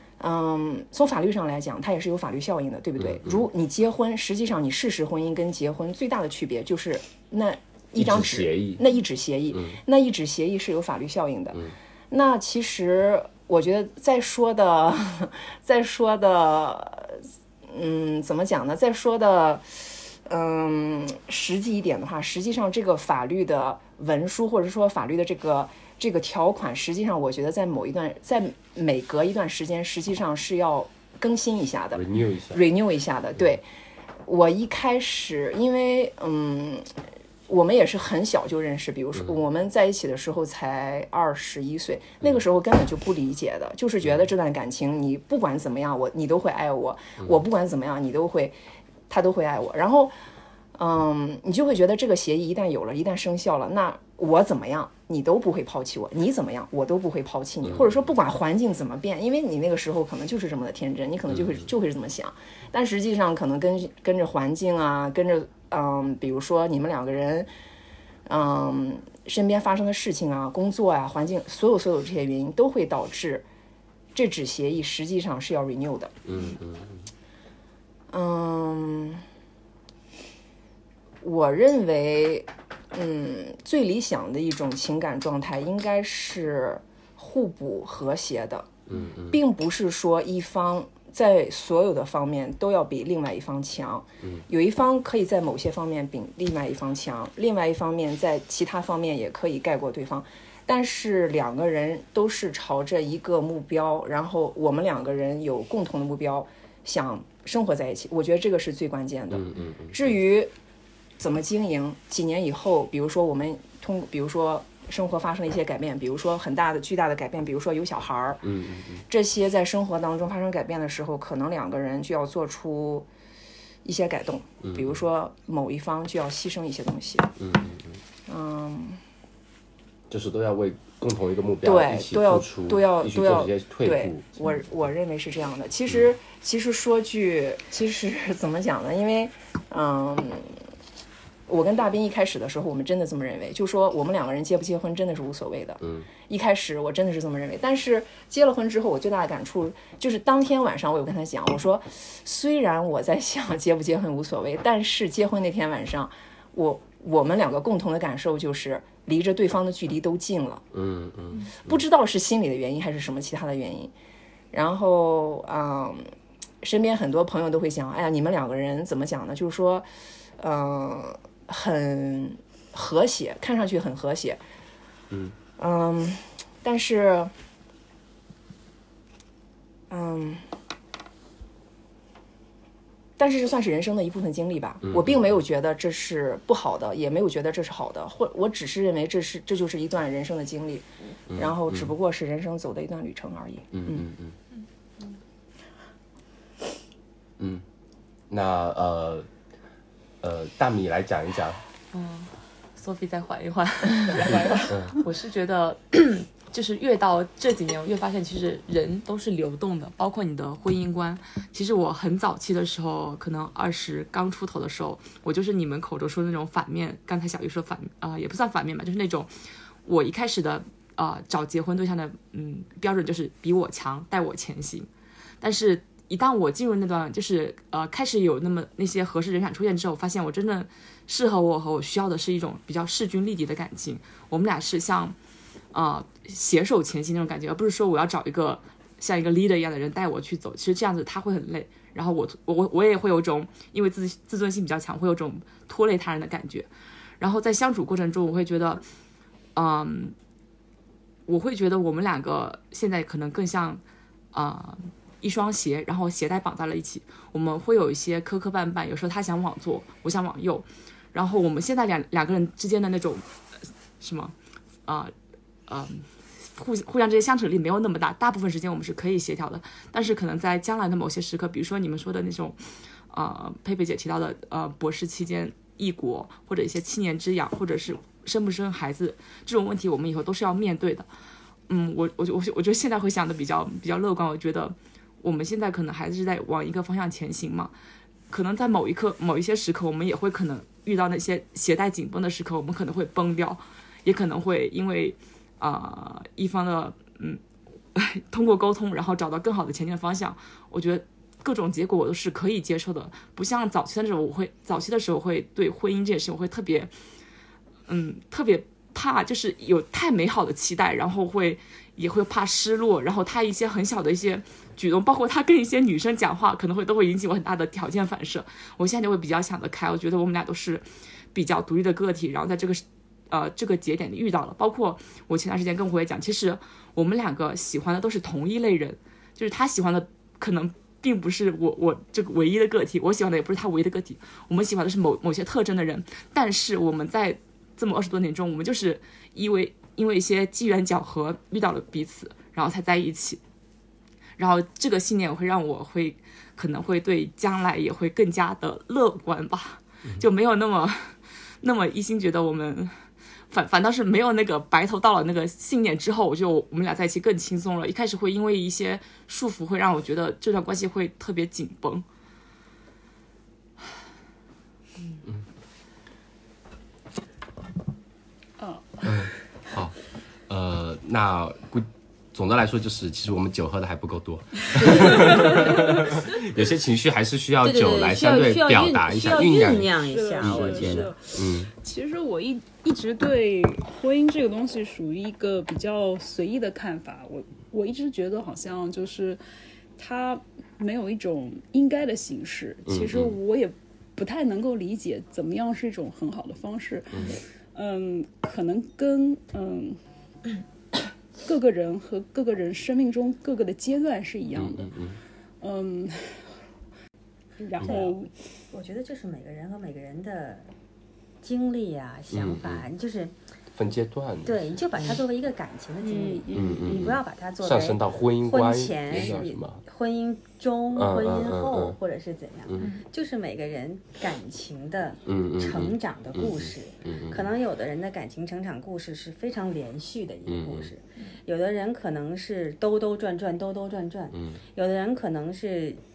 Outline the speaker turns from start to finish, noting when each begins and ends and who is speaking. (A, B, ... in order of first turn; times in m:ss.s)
0:00.2-0:33.6 A
0:03.0-0:03.4 B
0:08.0-0:08.8 B
0:09.5-0:09.8 B
0:31.9-0:32.6 B
0:34.2-0:36.9 A
0:37.5-0:48.6 A
0:44.0-0:44.3 B
0:49.1-0:50.1 A
0:50.8-1:07.5 A
0:57.6-0:58.0 B
1:08.3-1:13.5 A
1:14.1-1:16.2 A
1:16.3-1:17.0 B
1:18.1-1:19.2 A
1:21.2-1:28.7 A
1:28.9-1:29.4 B
1:29.3-1:50.5 A
1:49.3-1:50.1 B
1:51.2-1:58.4 A
1:58.4-1:59.0 B
1:59.1-2:03.1 A
2:03.8-2:07.4 A
2:04.6-2:05.0 B
2:07.4-2:08.0 B
2:08.3-2:09.0 A
2:10.1-2:14.3 B
2:11.6-2:20.6 A
2:21.5-2:40.7 A
2:25.8-2:26.1 B
2:40.7-2:41.8 B
2:41.6-2:43.9 A
2:44.5-2:46.0 A
2:46.6-2:49.9 A
2:50.4-2:54.4 A
2:55.6-2:57.3 A
2:59.9-3:00.4 A
3:03.2-3:14.0 A
3:04.8-3:05.2 B
3:11.3-3:11.9 B
3:13.7-3:14.3 B
3:18.3-3:19.3 B
3:20.2-3:21.6 B
3:21.9-3:39.3 C
3:24.2-3:25.0 B
3:39.8-3:44.9 C
3:45.4-3:55.2 C
3:55.7-4:06.7 C
4:07.2-4:08.8 C
4:09.6-4:10.1 C
4:11.3-4:13.8 C
4:14.3-4:24.3 C
4:24.9-4:25.1 C
4:25.7-4:32.6 C
4:33.1-4:41.1 C
4:41.7-4:47.7 C
4:48.3-4:57.4 C
4:58.0-5:06.9 C
5:07.9-5:43.4 C
5:44.4-5:53.0 C
5:53.5-6:02.0 C
6:08.6-6:09.1 D
6:09.0-6:10.0 B
6:10.5-6:21.7 B
6:14.8-6:15.8 E
6:17.6-6:21.1 E
6:20.0-6:29.4 D
6:30.0-6:40.0 D
6:32.9-6:33.4 B
6:37.1-6:37.4 B
6:41.4-6:44.9 D
6:44.5-6:45.2 B
6:45.6-6:46.5 D
6:47.6-6:48.3 D
6:47.8-6:48.2 E
6:48.7-6:50.7 E
6:51.4-6:53.4 E
6:52.3-6:52.9 B
6:53.8-6:54.7 B
6:54.4-7:16.0 E
6:56.0-6:57.0 D
6:56.5-6:59.8 B
7:01.0-7:02.0 B
7:02.7-7:02.9 B
7:05.3-7:07.5 B
7:10.5-7:10.9 B
7:14.3-7:14.6 B